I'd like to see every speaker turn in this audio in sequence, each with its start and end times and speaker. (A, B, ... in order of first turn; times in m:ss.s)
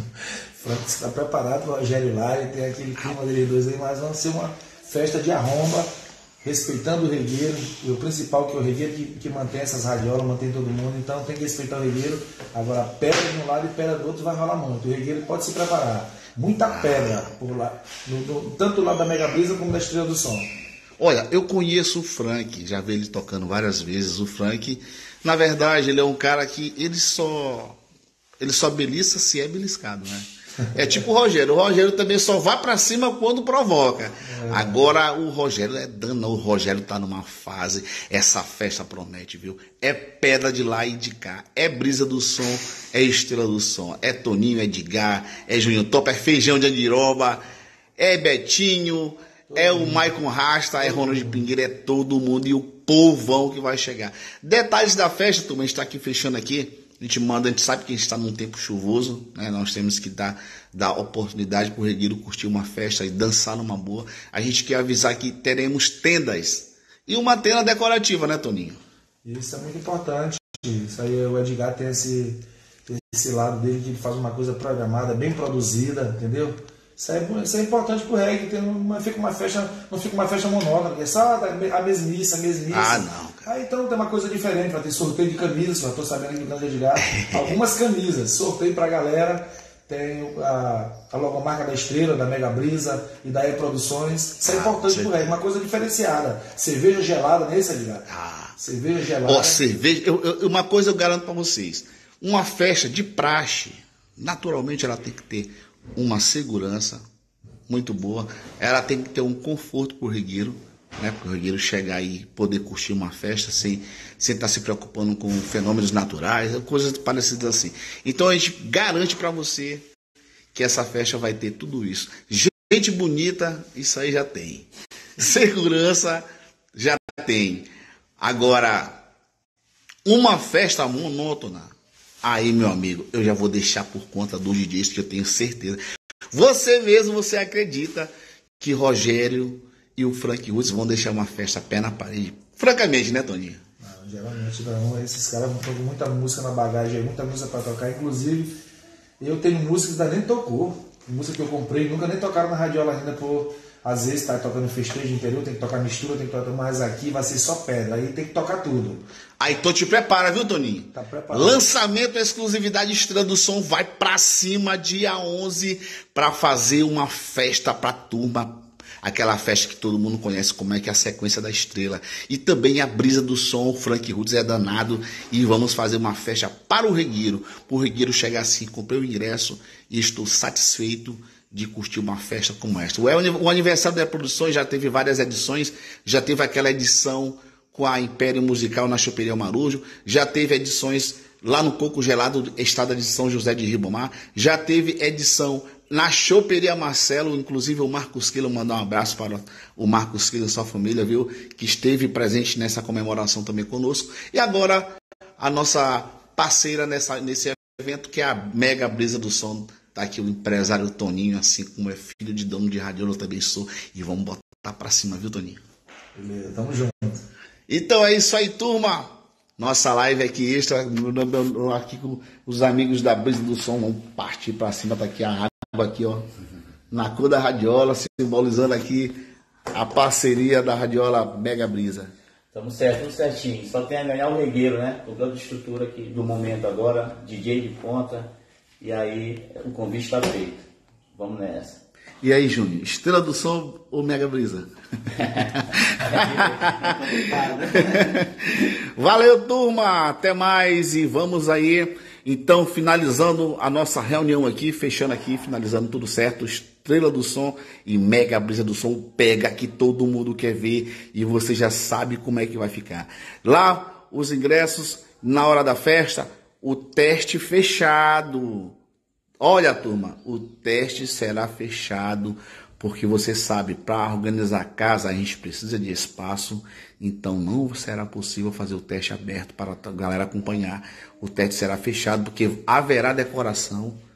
0:00.6-0:05.9 A
0:06.4-0:20.5 A
0:16.6-0:17.3 B
0:21.0-0:27.8 B
0:28.4-0:47.4 B
0:34.2-0:34.9 A
0:48.0-1:08.8 B
0:49.5-0:50.2 A
0:50.8-0:51.5 A
1:09.2-1:39.6 A
1:22.7-1:23.5 B
1:27.0-1:27.6 B
1:34.4-1:35.1 B
1:38.1-1:38.6 B
1:39.2-1:47.0 B
1:47.7-1:59.8 B
2:00.5-2:07.7 B
2:08.2-2:09.0 B
2:10.1-2:11.7 B
2:12.2-2:15.8 B
2:16.3-2:23.6 B
2:23.8-2:28.5 A
2:29.2-2:39.0 A
2:39.4-3:35.6 B
2:40.9-2:41.7 A
3:36.2-3:37.2 A
3:37.7-3:46.3 B
3:46.9-3:49.2 B
3:49.7-3:52.1 B
3:52.5-4:01.8 C
4:02.2-4:04.7 B
4:05.2-4:08.2 C
4:05.4-4:28.8 B
4:29.4-4:44.0 B